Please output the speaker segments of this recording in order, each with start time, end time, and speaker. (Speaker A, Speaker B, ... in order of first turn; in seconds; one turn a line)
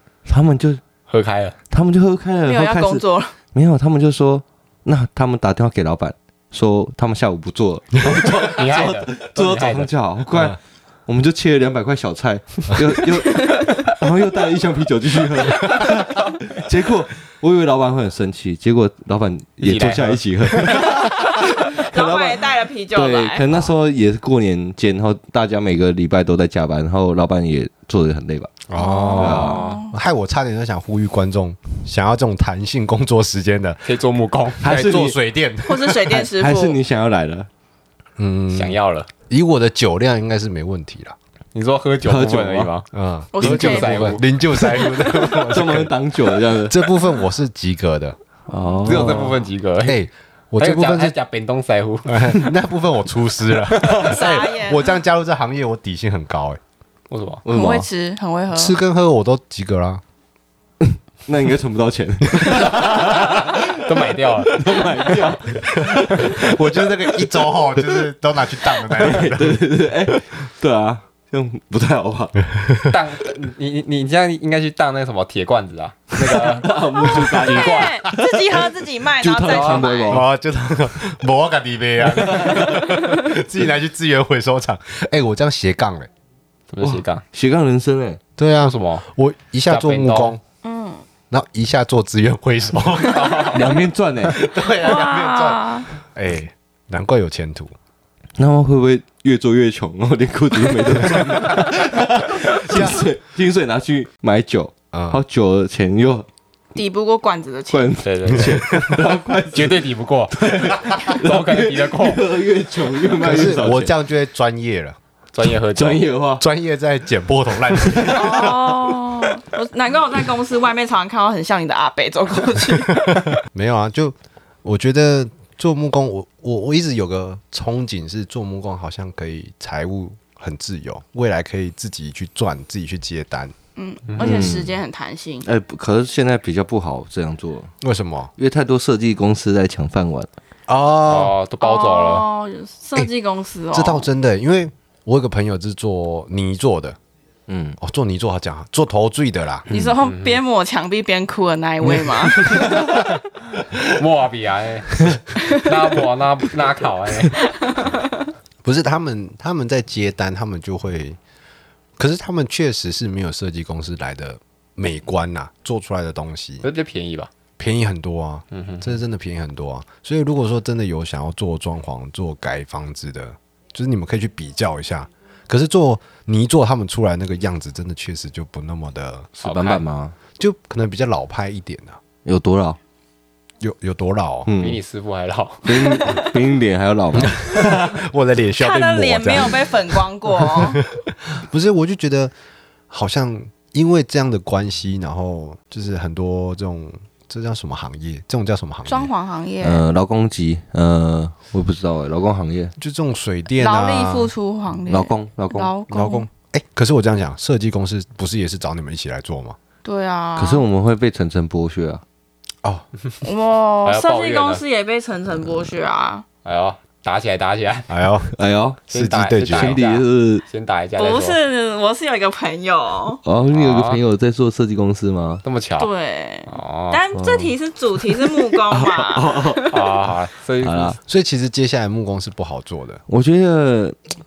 Speaker A: 0.3-0.8
Speaker B: 1.1-1.6
Speaker A: 1.7-28.5
Speaker C: 2.5-3.4
Speaker B: 8.2-9.9
Speaker C: 13.3-13.7
Speaker B: 19.6-20.9
Speaker C: 21.0-23.4
Speaker D: 28.7-33.8
Speaker C: 28.8-29.9
Speaker B: 29.1-29.8
Speaker A: 29.1-29.6
Speaker B: 33.9-34.7
Speaker D: 34.6-36.2
Speaker A: 34.6-35.1
Speaker C: 35.6-36.8
Speaker A: 36.1-37.5
Speaker D: 38.2-38.8
Speaker B: 38.5-39.1
Speaker D: 39.3-41.1
Speaker B: 41.5-42.9
Speaker A: 42.0-42.7
Speaker D: 42.9-45.9
Speaker C: 43.3-45.3
Speaker B: 43.4-44.2
Speaker A: 45.5-46.8
Speaker D: 46.6-48.1
Speaker A: 48.5-49.4
Speaker C: 48.5-48.9
Speaker B: 48.9-50.0
Speaker D: 49.9-51.1
Speaker B: 50.6-52.4
Speaker D: 52.1-56.6
Speaker C: 53.9-55.0
Speaker B: 57.1-57.4
Speaker A: 57.4-57.9
Speaker C: 57.5-58.8
Speaker D: 58.5-60.0
Speaker A: 60.8-66.5
Speaker D: 62.4-62.8
Speaker B: 62.9-65.3
Speaker D: 65.9-69.6
Speaker A: 68.8-72.3
Speaker D: 72.5-72.9
Speaker B: 72.9-78.0
Speaker A: 76.2-78.7
Speaker C: 76.7-80.2
Speaker A: 79.2-80.3
Speaker B: 79.5-79.9
Speaker D: 80.1-86.1
Speaker A: 82.0-82.8
Speaker B: 86.7-87.2
Speaker A: 86.8-88.2
Speaker D: 88.4-90.4
Speaker B: 88.6-89.0
Speaker B: 89.7-90.4
Speaker C: 90.6-91.0
Speaker D: 91.3-93.7
Speaker B: 93.0-93.8
Speaker A: 93.5-94.4
Speaker D: 94.3-97.7
Speaker C: 94.7-95.9
Speaker A: 98.4-106.3
Speaker D: 102.7-103.0
Speaker D: 104.9-105.2
Speaker C: 106.7-107.9
Speaker A: 107.7-113.9
Speaker B: 108.0-108.7
Speaker D: 108.4-109.0
Speaker B: 109.5-112.2
Speaker D: 113.2-115.0
Speaker B: 115.3-116.1
Speaker A: 115.7-116.4
Speaker D: 116.4-118.7
Speaker A: 117.8-119.0
Speaker C: 118.1-123.2
Speaker D: 123.4-133.5
Speaker C: 133.8-135.5
Speaker B: 134.1-134.4
Speaker A: 134.2-134.8
Speaker A: 135.4-137.7
Speaker D: 137.8-138.3
Speaker A: 138.4-140.3
Speaker D: 140.7-141.3
Speaker B: 141.1-142.3
Speaker C: 141.6-144.1
Speaker D: 143.7-147.0
Speaker A: 147.5-147.8
Speaker D: 147.8-149.7
Speaker A: 149.7-149.9
Speaker C: 149.7-152.8
Speaker B: 150.0-150.4
Speaker B: 152.6-152.9
Speaker B: 153.8-157.5
Speaker D: 158.6-161.2
Speaker D: 162.0-166.6
Speaker B: 166.6-167.3
Speaker D: 167.6-179.3
Speaker B: 168.5-168.9
Speaker A: 179.4-180.1
Speaker B: 179.4-179.8
Speaker D: 180.4-182.0
Speaker A: 182.2-182.8
Speaker D: 183.6-184.5
Speaker A: 184.4-184.8
Speaker B: 184.6-186.3
Speaker A: 185.6-187.7
Speaker D: 187.2-192.3
Speaker C: 188.6-190.8
Speaker D: 192.9-199.1
Speaker C: 198.9-199.8
Speaker A: 199.6-202.8
Speaker D: 202.8-204.3
Speaker C: 203.6-206.3
Speaker A: 204.9-205.7
Speaker D: 205.9-209.6
Speaker C: 209.8-210.6
Speaker A: 210.4-212.0
Speaker C: 213.2-216.3
Speaker B: 213.8-214.6
Speaker B: 216.4-217.9
Speaker D: 217.9-218.3
Speaker A: 218.3-218.8
Speaker D: 218.9-219.8
Speaker B: 218.9-221.4
Speaker A: 219.5-220.4
Speaker C: 221.0-223.2
Speaker A: 223.2-225.4
Speaker B: 223.5-224.0
Speaker B: 225.4-225.9
Speaker C: 225.8-229.9
Speaker B: 226.5-227.0
Speaker A: 227.1-227.6
Speaker A: 228.2-229.7
Speaker B: 229.7-231.0
Speaker A: 230.6-231.0
Speaker D: 231.1-233.0
Speaker A: 233.1-234.0